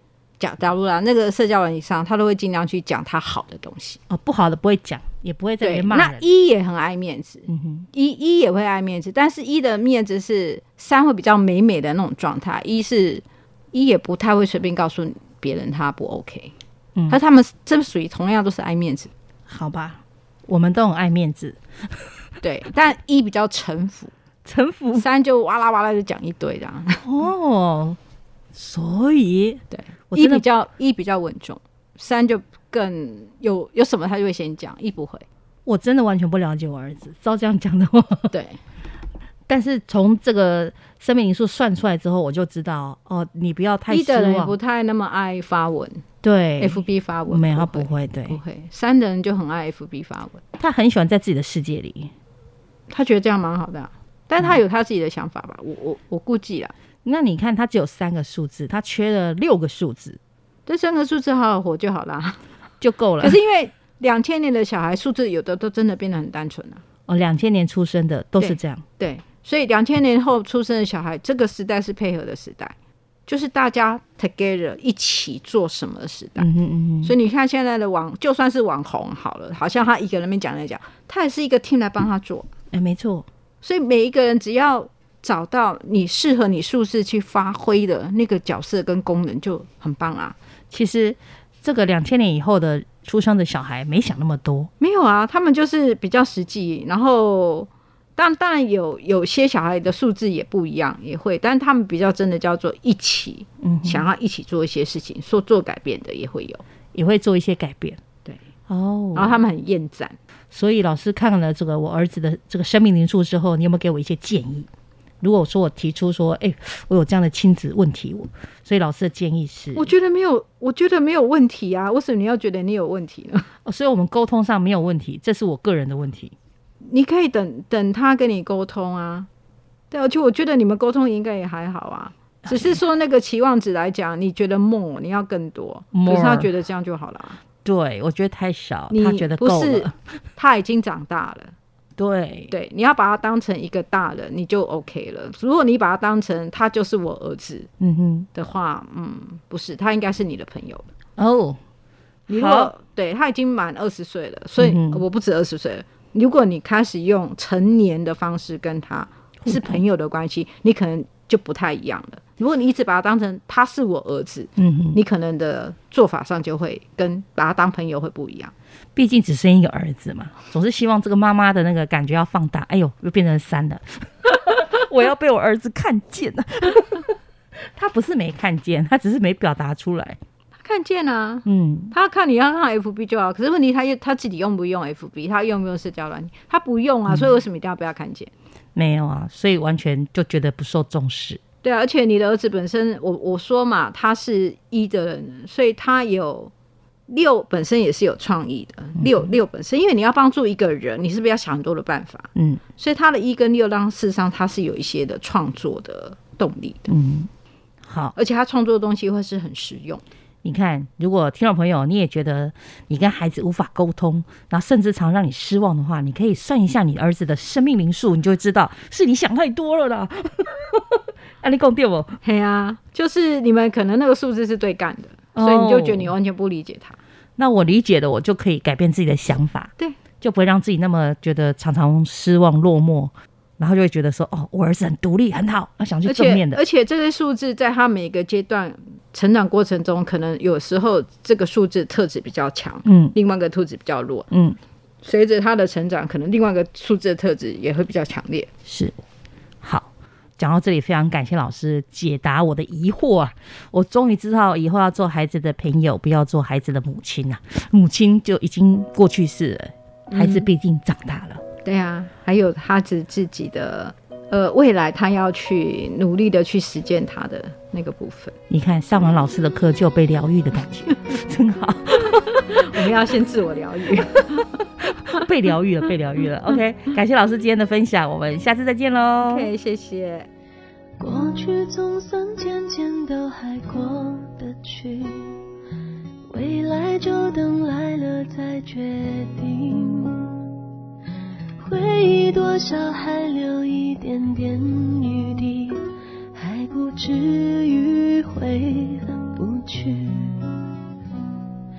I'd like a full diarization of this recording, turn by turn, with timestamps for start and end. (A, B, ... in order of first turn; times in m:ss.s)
0:00.4-0:04.0 A
0:04.1-0:06.3 B
0:05.6-0:16.5 A
0:07.5-0:07.9 B
0:17.1-0:19.1 A
0:19.5-0:22.1 B
0:22.4-0:24.1 A
0:24.4-0:25.0 B
0:24.9-0:27.0 A
0:27.0-0:28.0 B
0:28.5-0:30.4 B
0:29.7-0:35.2 A
0:35.6-0:38.3 B
0:38.3-0:38.6 A
0:39.5-0:44.5 B
0:43.9-0:46.0 A
0:46.2-0:48.4 B
0:46.6-0:50.4 A
0:50.6-0:52.1 B
0:52.9-0:56.7 A
0:57.0-1:00.2 B
1:00.7-1:02.4 A
1:02.8-1:03.4 B
1:03.2-1:06.8 A
1:07.1-1:08.8 B
1:08.4-1:12.7 A
1:13.3-1:16.5 A
1:16.4-1:17.1 B
1:17.0-1:22.5 A
1:22.7-1:23.3 B
1:23.6-1:30.4 A
1:30.7-1:34.7 B
1:34.8-1:46.6 A
1:43.6-1:44.0 B
1:46.9-1:48.0 B
1:48.7-1:49.4 B
1:49.1-1:50.2 A
1:50.5-1:54.7 B
1:55.2-1:59.9 B
1:59.7-2:03.5 A
2:03.6-2:06.3 B
2:06.8-2:09.3 A
2:09.9-2:17.4 A
2:12.4-2:12.8 B
2:15.9-2:16.5 B
2:17.6-2:19.9 B
2:18.9-2:21.5 A
2:22.0-2:22.5 B
2:22.5-2:27.7 A
2:27.8-2:28.3 B
2:28.3-2:30.9 A
2:31.2-2:31.6 B
2:32.3-2:32.7 B
2:32.3-2:48.5 A
2:34.6-2:35.0 B
2:39.4-2:39.8 B
2:44.6-2:45.0 B
2:48.9-2:57.1 B
2:57.7-3:00.2 B
3:00.6-3:08.3 A
3:01.4-3:01.9 B
3:07.1-3:07.3 B
3:08.7-3:11.4 B
3:11.6-3:16.5 A
3:17.1-3:26.9 A
3:19.0-3:19.3 B
3:22.3-3:22.6 B
3:26.9-3:27.3 B
3:27.8-3:28.1 B
3:28.1-3:30.0 A
3:30.4-3:42.2 B
3:42.2-3:47.0 A
3:45.3-3:46.1 B
3:47.4-3:56.6 B
3:56.0-4:04.3 A
4:02.8-4:03.1 B
4:04.3-4:04.6 B
4:05.0-4:08.5 A
4:08.6-4:09.0 B
4:09.6-4:21.4 B
4:20.1-4:20.5 A
4:21.6-4:28.3 A
4:28.5-4:32.8 B
4:32.4-4:34.5 A
4:35.0-4:39.5 B
4:39.2-4:40.3 A
4:41.0-4:45.4 C
4:46.3-4:50.2 C
4:51.6-5:00.7 C